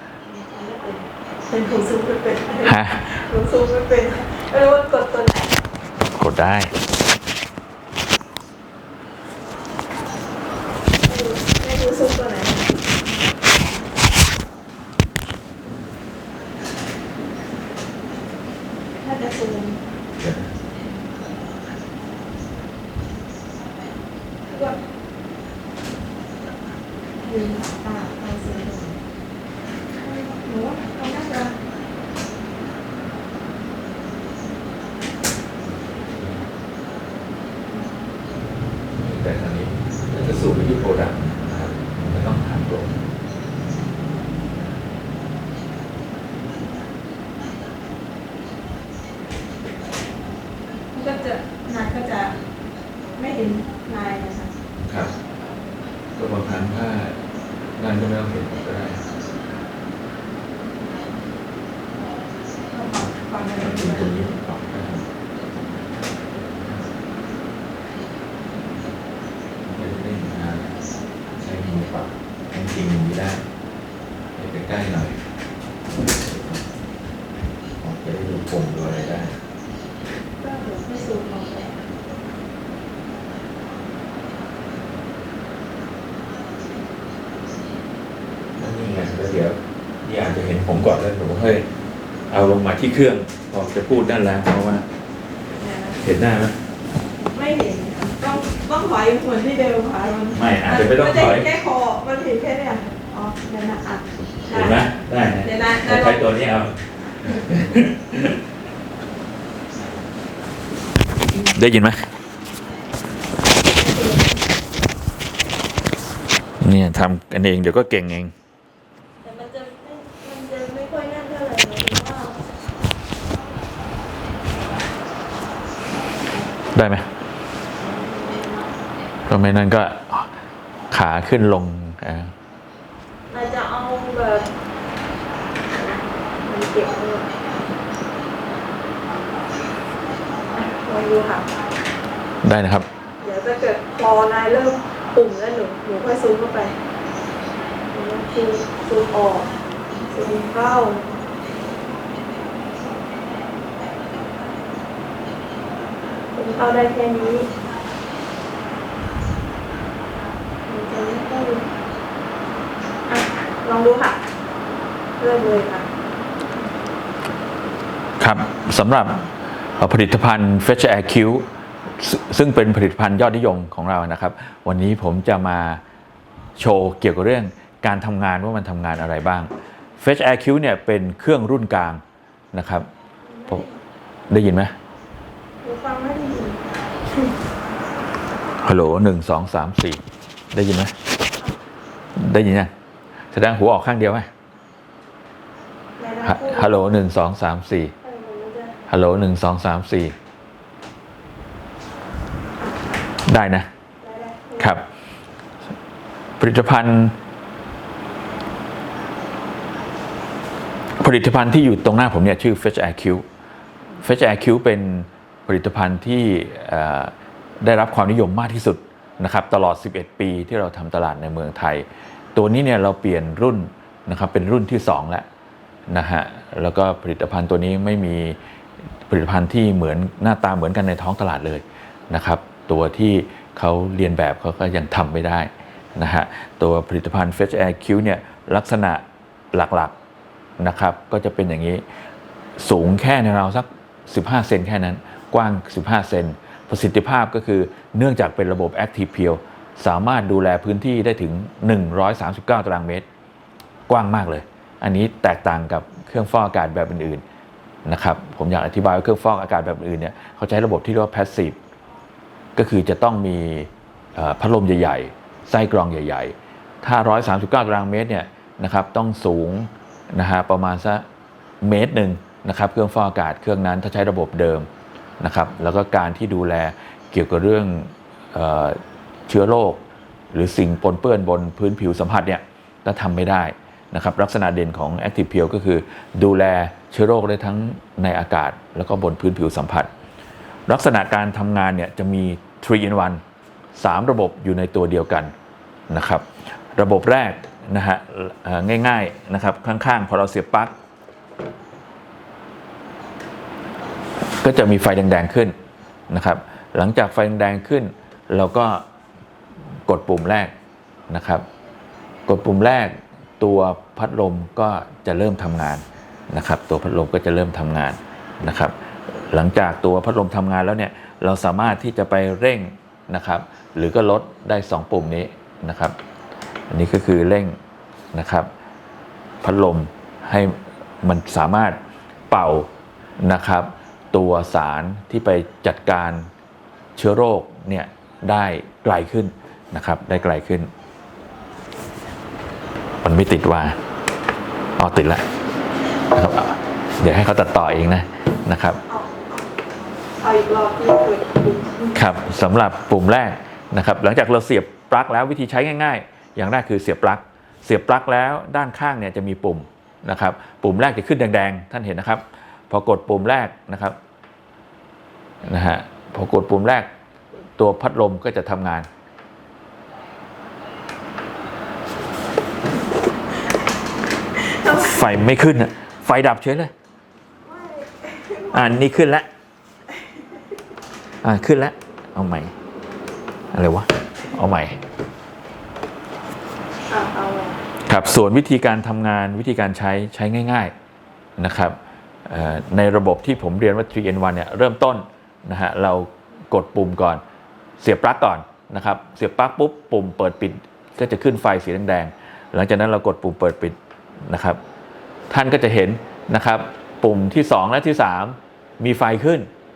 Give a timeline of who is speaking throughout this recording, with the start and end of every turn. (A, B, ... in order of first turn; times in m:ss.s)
0:00.2-0:05.6 A
0:02.6-0:03.2 B
0:06.1-0:06.7 B
0:11.0-0:12.7 A
0:19.0-0:19.8 A
0:20.2-0:20.5 B
0:24.5-0:24.8 A
0:27.2-0:29.0 A
0:30.0-0:31.5 A
0:35.6-0:36.4 B
0:37.7-0:38.0 A
0:38.9-0:43.0 B
0:50.9-0:52.4 A
0:53.2-0:54.6 A
0:54.8-0:55.1 B
0:56.2-0:57.2 B
0:57.8-0:59.1 B
1:02.7-1:04.2 A
1:03.6-1:05.1 B
1:06.3-1:06.9 B
1:09.6-1:10.8 B
1:11.3-1:13.4 B
1:14.4-1:15.2 B
1:16.0-1:16.6 B
1:17.8-1:19.4 B
1:20.4-1:21.8 A
1:28.6-1:31.7 B
1:32.3-1:34.8 B
1:35.6-1:36.0 A
1:36.0-1:36.6 B
1:37.3-1:44.8 A
1:40.3-1:41.4 B
1:44.5-1:48.4 B
1:45.4-1:46.2 A
1:51.4-1:52.0 B
1:53.6-1:54.4 A
1:56.6-1:58.3 B
1:59.2-2:02.4 A
2:06.7-2:07.0 B
2:07.7-2:08.7 A
2:09.3-2:10.3 B
2:10.9-2:12.3 B
2:13.3-2:14.5 A
2:15.7-2:17.3 A
2:20.5-2:21.5 A
2:22.4-2:22.8 B
2:23.2-2:26.7 A
2:27.9-2:29.5 A
2:30.0-2:31.0 A
2:36.3-2:37.5 A
2:40.7-2:41.7 A
2:43.1-2:44.2 A
2:45.2-2:45.9 A
2:48.2-2:51.4 B
2:52.0-2:55.8 B
2:56.6-3:02.0 B
3:02.5-3:02.9 B
3:03.3-3:03.8 A
3:04.3-3:04.7 B
3:05.6-3:07.3 A
3:08.6-3:10.0 B
3:10.5-3:10.9 B
3:12.2-3:12.7 B
3:13.3-3:14.3 B
3:16.0-3:16.8 A
3:16.2-3:17.9 B
3:18.0-3:18.8 A
3:18.9-3:20.1 B
3:23.3-3:23.7 B
3:24.0-3:24.8 A
3:24.6-3:24.8 B
3:26.4-3:27.2 B
3:31.0-3:33.2 B
3:34.0-3:45.2 B
3:45.9-3:48.4 B
3:49.1-3:59.9 B
4:00.6-4:01.8 B
4:02.6-4:13.0 B
4:13.9-4:17.2 B
4:17.9-4:21.6 B
4:22.6-4:31.0 B
4:31.6-4:34.7 B
4:35.2-4:49.9 B
4:50.7-4:53.2 B
4:53.8-4:55.3 B
4:55.9-5:00.7 B
5:04.4-5:05.6 B
5:06.1-5:08.8 B
5:09.9-5:10.5 B
5:11.1-5:11.5 B
5:12.3-5:26.0 B
5:26.7-5:27.6 B
5:28.1-5:28.5 B
5:29.4-5:31.8 B
5:32.3-5:32.7 B
5:33.2-5:36.3 B
5:37.0-5:40.7 B
5:43.0-5:43.8 B
5:44.8-5:45.2 B
5:46.1-5:48.8 B
5:48.9-5:49.4 A
5:50.2-5:51.9 A
5:51.9-6:04.0 B
6:05.5-6:06.9 B
6:07.6-6:08.9 B
6:14.4-6:15.0 A
6:14.7-6:16.7 B
6:17.4-6:18.9 A
6:18.5-6:19.3 B
6:21.2-6:22.5 B
6:23.5-6:24.8 B
6:26.9-6:27.6 A
6:27.9-6:30.7 B
6:31.4-6:37.2 B
6:37.8-6:43.8 B
6:44.3-6:44.6 B
6:45.3-6:49.5 B